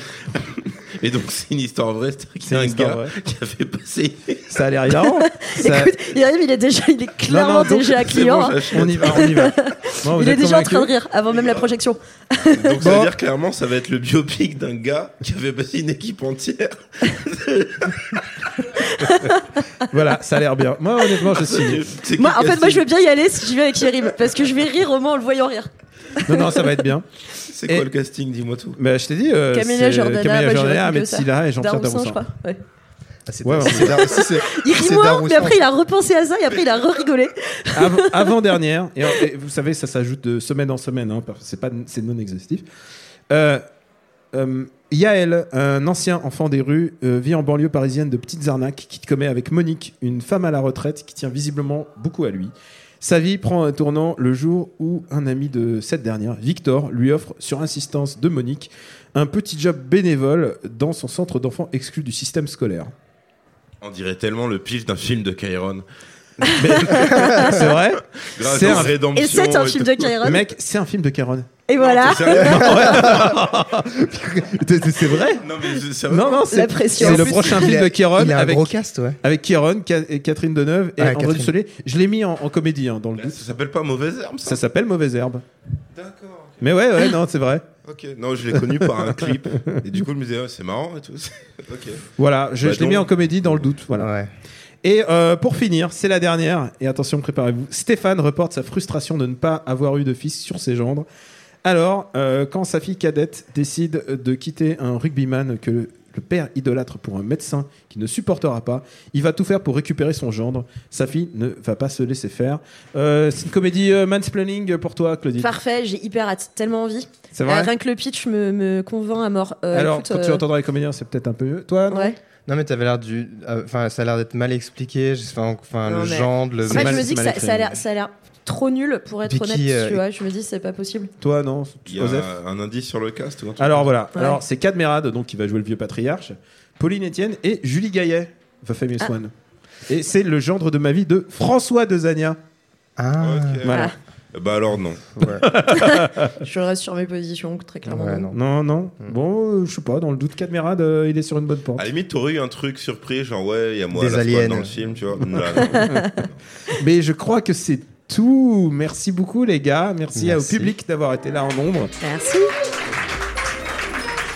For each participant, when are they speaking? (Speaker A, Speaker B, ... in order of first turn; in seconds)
Speaker A: 0.3-4.4, 7.9-9.5, 11.3-11.7, 12.5-18.2, 21.3-22.8, 27.4-28.8, 63.8-65.8, 66.6-67.5, 68.2-70.2, 71.8-73.4, 75.3-76.5, 83.2-84.6, 85.9-86.6, 87.8-92.0, 92.6-93.6, 131.9-133.9, 143.2-143.8, 144.3-145.1, 151.8-156.3
Speaker B: 2.4-3.1, 4.5-5.9, 7.3-8.0, 8.7-10.9, 12.8-13.1, 19.9-21.8, 26.2-27.0, 28.8-32.2, 33.4-34.0, 37.7-42.6, 43.3-43.6, 44.3-62.9, 66.5-69.0, 70.2-71.5, 72.3-75.4, 76.1-83.5, 84.4-85.4, 86.6-87.6, 88.8-89.2, 92.2-94.1, 94.8-101.0, 101.6-115.5, 117.3-117.7, 119.7-122.1, 126.7-127.7, 131.2-132.3, 133.6-139.3, 139.9-142.4, 143.6-143.9, 145.4-146.3, 148.3-151.8, 155.6-156.1, 156.8-161.9
Speaker C: 5.2-12.8, 19.0-19.4, 22.2-26.7, 29.5-32.6, 33.7-38.3, 66.9-67.5, 68.7-70.4, 71.7-73.0, 76.5-77.7, 115.4-120.4, 121.9-122.2, 125.8-131.1, 145.7-148.3, 162.0-162.5
Speaker D: 33.3-35.6, 72.7-73.2, 77.0-79.2, 81.0-81.5, 93.9-94.3, 122.5-127.1, 129.3-130.0, 143.0-143.7, 145.1-145.4, 147.8-148.3, 153.9-154.8, 160.1-160.7